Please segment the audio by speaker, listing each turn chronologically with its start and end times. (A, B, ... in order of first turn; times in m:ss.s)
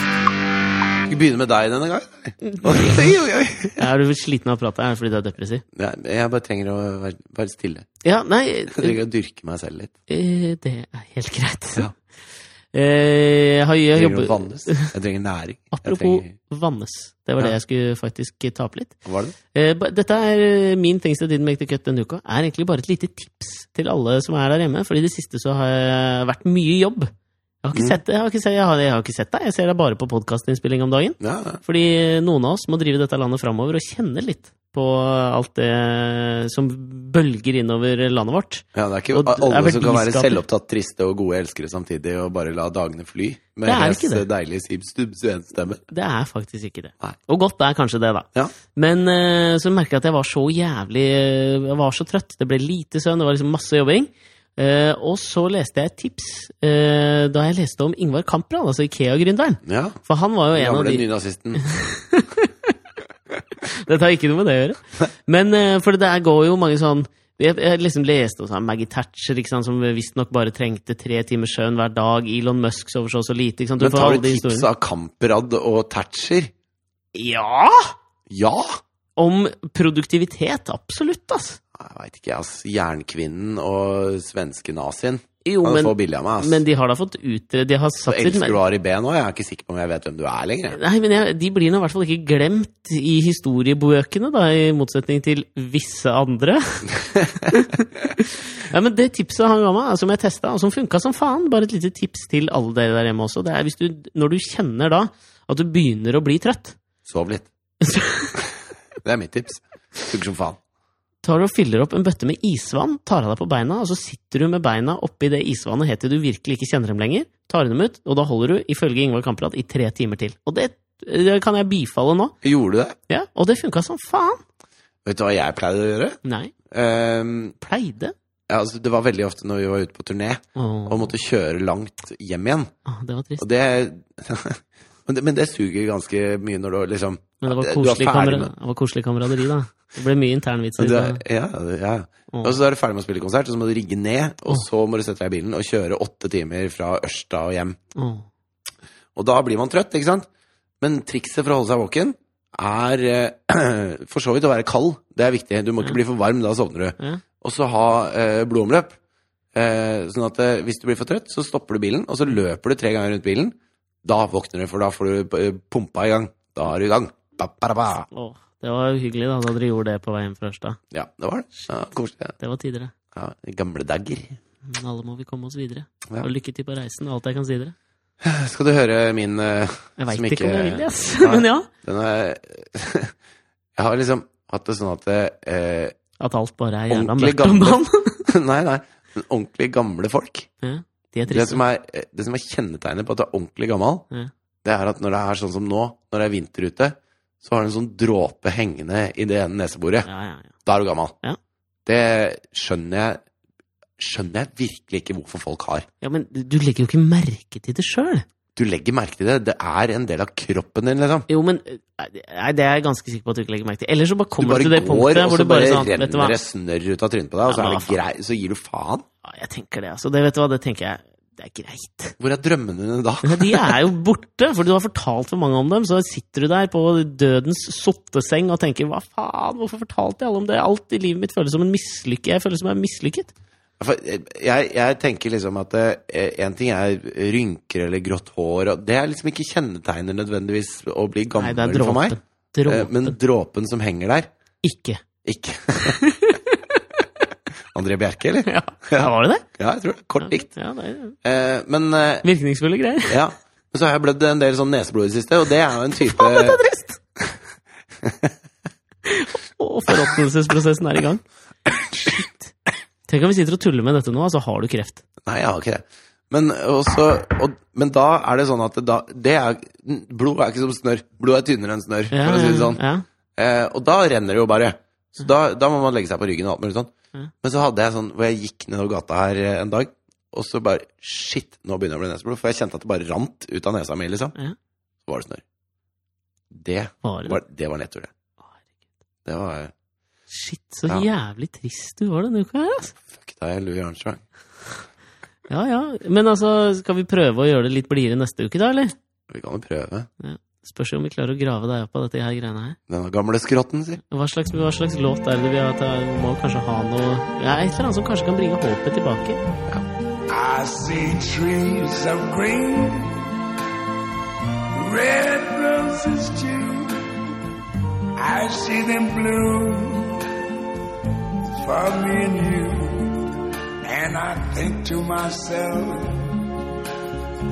0:01.1-0:03.8 A
0:02.4-0:03.1 B
0:03.8-0:05.6 B
0:05.8-0:07.9 A
0:08.0-0:09.0 B
0:08.7-0:09.9 A
0:10.1-0:11.9 B
0:12.7-0:14.9 B
0:14.0-0:16.3 A
0:15.7-0:19.0 B
0:19.0-0:19.4 A
0:19.5-0:27.1 B
0:27.6-0:40.4 B
0:31.2-0:31.6 A
0:38.8-0:45.8 A
0:43.7-0:44.2 B
0:45.9-1:01.0 B
0:59.6-1:00.0 A
1:00.6-1:01.6 A
1:01.6-1:02.7 B
1:03.6-1:14.7 B
1:13.8-1:16.5 A
1:17.1-1:17.9 B
1:18.3-1:18.8 A
1:19.2-1:21.6 B
1:21.8-1:26.6 A
1:25.4-1:28.6 B
1:28.1-1:30.8 A
1:30.7-1:46.8 B
1:47.1-1:47.5 A
1:47.8-1:48.4 B
1:49.0-1:50.6 A
1:51.2-2:02.4 B
2:02.4-2:03.0 A
2:03.1-2:04.4 B
2:05.0-2:07.6 A
2:06.2-2:06.5 B
2:07.6-2:08.2 B
2:08.5-2:12.7 A
2:10.6-2:11.1 B
2:12.9-2:13.4 B
2:13.4-2:18.5 A
2:17.4-2:21.2 B
2:20.8-2:27.8 A
2:22.3-2:22.6 B
2:28.0-2:28.3 B
2:29.2-2:30.3 A
2:30.8-2:39.0 A
2:39.5-2:48.1 A
2:48.1-2:50.8 B
2:50.9-2:52.4 A
2:52.4-2:52.9 B
2:53.1-2:54.4 A
2:54.7-2:57.8 B
2:58.2-3:03.2 A
3:00.0-3:01.7 B
3:03.8-3:06.0 A
3:06.2-3:08.3 B
3:06.9-3:10.5 A
3:10.6-3:11.6 B
3:11.3-3:14.1 A
3:14.6-3:20.1 A
3:20.1-3:20.5 B
3:20.6-3:21.2 A
3:21.9-3:23.2 A
3:24.0-3:25.9 A
3:26.0-3:28.2 B
3:28.6-3:31.3 A
3:31.3-3:36.4 B
3:34.4-3:39.0 A
3:37.5-3:38.0 B
3:39.2-3:42.2 B
3:42.2-3:43.8 A
3:43.2-3:53.3 B
3:53.8-4:02.2 A
4:01.4-4:03.2 B
4:02.7-4:04.3 A
4:04.6-4:05.0 B
4:05.2-4:06.0 A
4:05.9-4:06.8 B
4:07.7-4:10.5 A
4:08.5-4:09.5 B
4:10.2-4:11.2 B
4:11.2-4:12.3 A
4:12.2-4:13.2 B
4:13.1-4:16.6 A
4:16.1-4:17.0 B
4:18.0-4:18.3 A
4:19.0-4:21.2 B
4:22.1-4:22.5 B
4:23.1-4:25.0 B
4:25.3-4:32.8 A
4:32.1-4:33.0 B
4:33.4-4:36.9 A
4:37.4-4:44.4 A
4:45.0-4:45.4 A
4:46.5-4:48.1 A
4:47.0-4:47.4 B
4:49.2-4:49.7 A
4:50.3-4:53.0 B
4:53.1-4:54.2 A
4:55.5-4:59.0 B
4:59.3-5:00.1 A
5:00.2-5:02.8 B
5:02.9-5:04.0 A
5:04.0-5:09.4 B
5:10.3-5:13.3 C
5:14.7-5:17.1 C
5:18.2-5:20.3 C
5:21.5-5:23.3 C
5:23.8-5:26.7 C